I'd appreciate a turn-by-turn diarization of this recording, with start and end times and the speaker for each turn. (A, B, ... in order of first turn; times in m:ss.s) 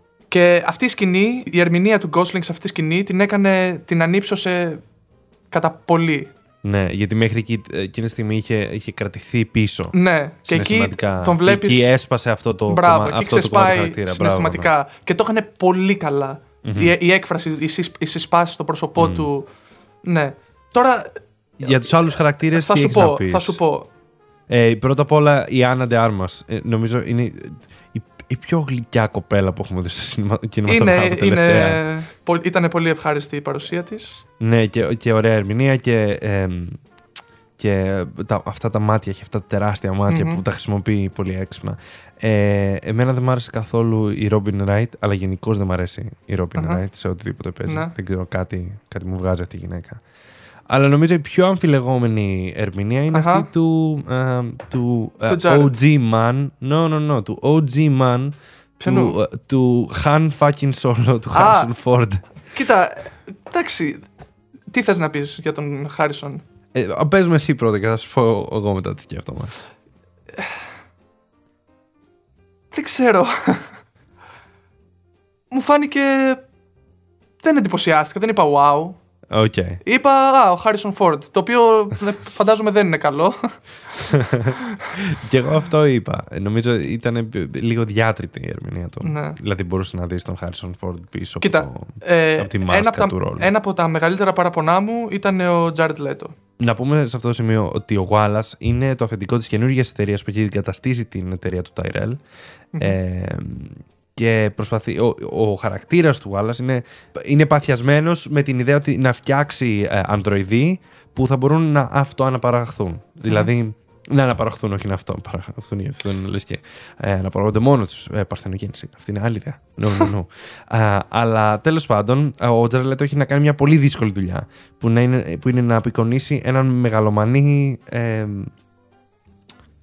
0:00.3-0:04.8 A
0:05.5-0:06.3 A
0:06.6-0:14.7 B
0:09.9-0:11.9 A
0:12.7-0:19.5 A
0:16.6-0:17.0 B
0:19.0-0:19.3 B
0:20.0-0:21.2 A
0:21.6-0:23.6 B
0:22.5-0:23.9 A
0:24.5-0:31.8 B
0:30.7-0:34.2 A
0:34.4-0:36.8 B
0:37.6-0:50.0 B
0:40.1-0:40.4 A
0:46.6-0:46.8 A
0:47.7-0:47.9 A
0:50.7-1:02.2 B
0:53.1-0:53.5 A
0:55.3-0:55.7 A
0:58.8-0:59.2 A
1:01.3-1:01.7 A
1:02.5-1:04.1 A
1:04.7-1:06.4 A
1:06.8-1:09.5 B
1:12.7-1:13.8 A
1:15.5-1:16.4 A
1:17.4-1:19.0 A
1:19.3-1:19.8 B
1:19.8-1:23.5 A
1:24.0-1:33.5 B
1:29.0-1:29.4 A
1:31.4-1:36.4 A
1:36.6-1:42.2 B
1:42.8-2:08.5 B